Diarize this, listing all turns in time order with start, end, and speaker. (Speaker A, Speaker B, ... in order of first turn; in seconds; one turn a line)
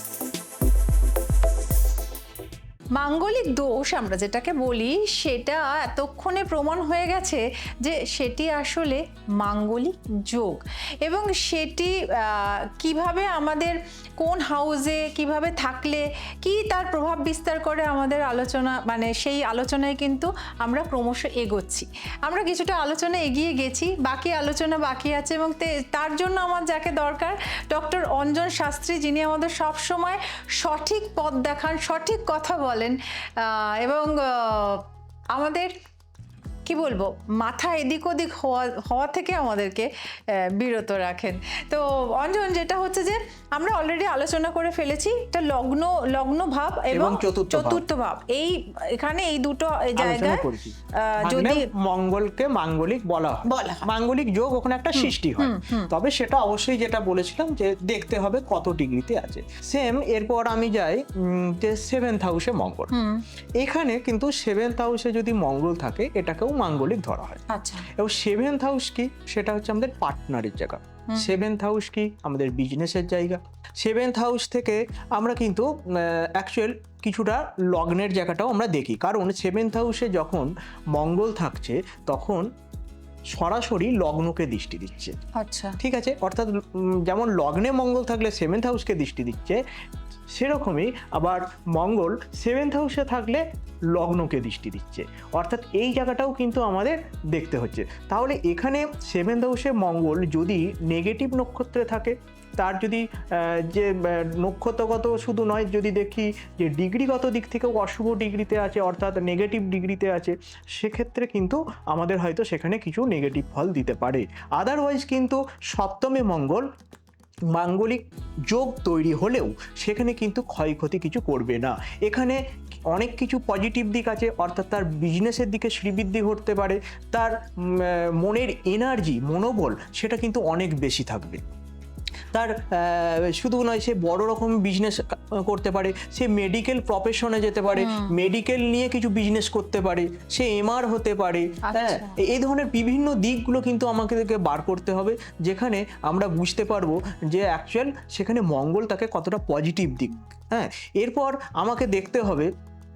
Speaker A: 3.0-35.7
Speaker A: 36.6-50.5
Speaker B: 46.9-47.8
Speaker B: 50.0-62.9
Speaker A: 51.0-51.6
Speaker A: 53.5-53.8
Speaker A: 54.9-55.9
Speaker A: 62.9-63.2
Speaker B: 63.6-67.4
Speaker A: 67.5-67.9
Speaker B: 67.9-82.5
Speaker A: 71.1-71.4
Speaker B: 83.3-85.1
Speaker A: 85.3-85.8
Speaker B: 85.8-89.6
Speaker B: 90.3-116.7
Speaker B: 117.5-131.4
Speaker B: 132.3-152.5
Speaker A: 137.7-138.2
Speaker A: 141.6-142.2